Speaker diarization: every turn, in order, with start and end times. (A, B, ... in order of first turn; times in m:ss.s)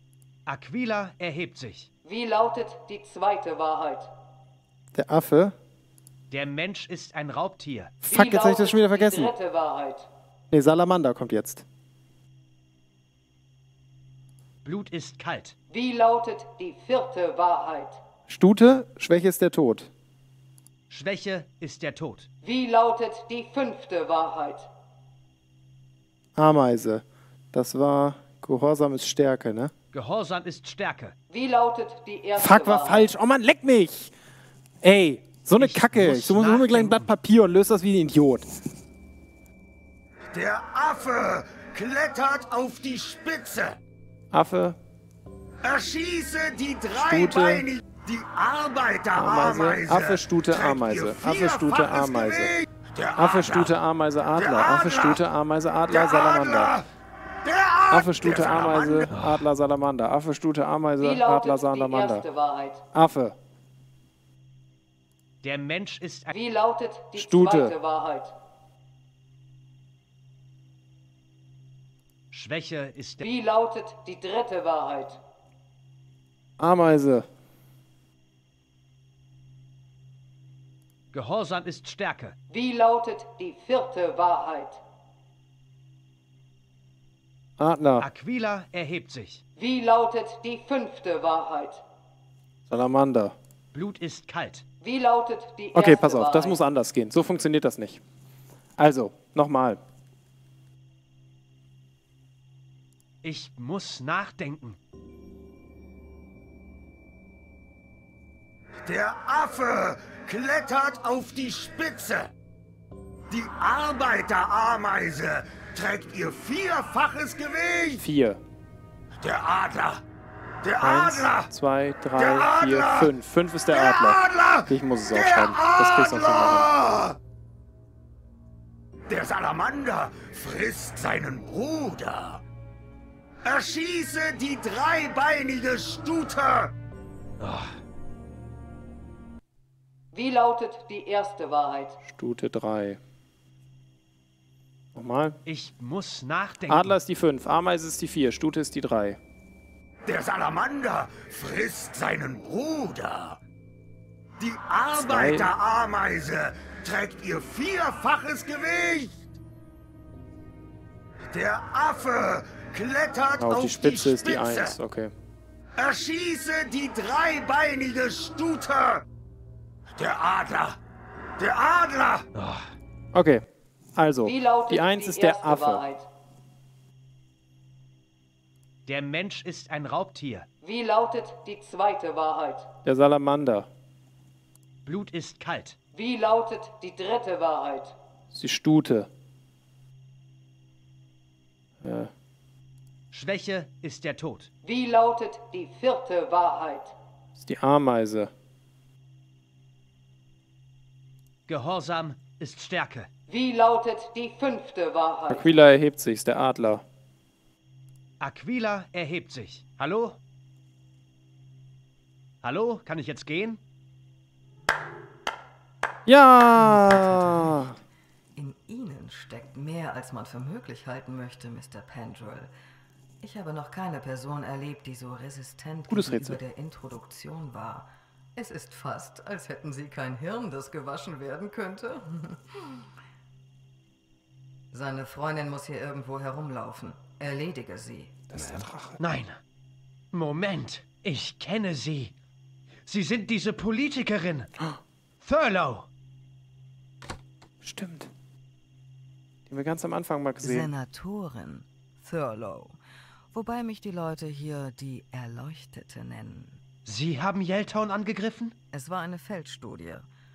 0:00.5-0:01.9 A
0:02.0-0:04.1 B
0:04.9-0:05.5 C
0:06.3-0:08.0 A
0:08.0-0:09.3 C
0:08.0-0:10.1 B
0:10.5-0:11.6 C
0:14.6-0:15.6 A
0:15.7-0:18.0 B
0:18.3-0:19.9 C
0:20.9-0:22.3 A
0:22.4-0:24.7 B
0:26.4-0:29.7 C
0:29.9-0:31.1 A
0:31.3-0:33.1 B
0:32.4-0:34.1 C
0:34.8-0:38.5 C
0:35.6-0:37.1 A
0:40.3-0:43.8 D
0:44.3-0:44.8 C
0:45.6-0:53.7 D
0:46.9-0:47.6 C
0:49.1-0:52.5 C
0:53.1-0:56.8 C
0:54.3-0:55.2 D
0:55.9-0:56.8 D
0:57.4-0:59.1 D
0:57.9-1:02.2 C
0:59.1-0:59.4 A
1:01.0-1:02.8 B
1:02.9-1:03.4 C
1:05.4-1:06.3 A
1:06.3-1:08.3 B
1:07.2-1:07.7 C
1:12.3-1:13.3 A
1:13.2-1:15.2 B
1:16.6-1:17.3 C
1:21.1-1:22.4 A
1:22.5-1:24.8 B
1:27.6-1:28.0 C
1:28.0-1:29.4 A
1:29.6-1:31.8 B
1:32.7-1:33.4 C
1:33.7-1:34.6 A
1:34.8-1:36.6 B
1:35.7-1:38.0 C
1:38.8-1:39.8 C
1:43.2-1:44.8 A
1:48.8-1:52.3 D
1:53.3-1:58.0 D
1:58.0-1:58.4 C
1:59.2-2:00.0 D
2:00.6-2:01.5 D
2:00.8-2:06.7 C
2:02.2-2:03.1 D
2:03.7-2:07.2 D
2:09.1-2:12.4 D
2:13.4-2:16.7 D
2:17.4-2:17.8 A
2:20.1-2:22.0 B
2:22.0-2:23.0 C
2:24.9-2:25.4 C
2:25.4-2:27.0 A
2:26.7-2:29.2 C
2:30.0-2:33.4 D
2:34.4-2:39.3 D
2:34.9-2:35.5 C
2:41.3-2:44.8 D
2:43.4-2:45.1 C
2:45.8-2:49.0 D
2:49.9-2:50.8 D
2:51.4-2:52.2 D
2:52.3-2:52.7 A
2:53.1-2:53.4 C
2:54.0-2:55.9 C
2:54.2-2:56.0 B
2:58.9-3:00.5 A
3:00.6-3:02.7 B
3:02.8-3:03.7 C
3:04.8-3:05.8 A
3:05.9-3:08.0 B
3:08.3-3:09.1 C
3:11.8-3:12.1 C
3:13.1-3:14.5 A
3:14.6-3:16.9 B
3:17.4-3:18.3 C
3:21.5-3:23.1 A
3:23.3-3:25.5 B
3:25.3-3:26.8 C
3:28.2-3:30.2 A
3:32.4-3:33.6 A
3:36.0-3:37.8 C
3:36.6-3:37.8 E
3:38.4-3:42.5 E
3:43.2-3:52.4 E
3:45.9-3:46.4 C
3:54.7-3:58.3 E
3:58.3-3:59.0 C
3:58.4-3:59.4 A
4:00.1-4:02.1 A
4:02.8-4:04.5 A
4:05.2-4:05.9 A
4:07.6-4:08.1 C
4:09.5-4:10.7 C
4:10.4-4:12.8 E
4:13.3-4:16.6 E
4:16.8-4:18.5 A
4:18.7-4:20.1 E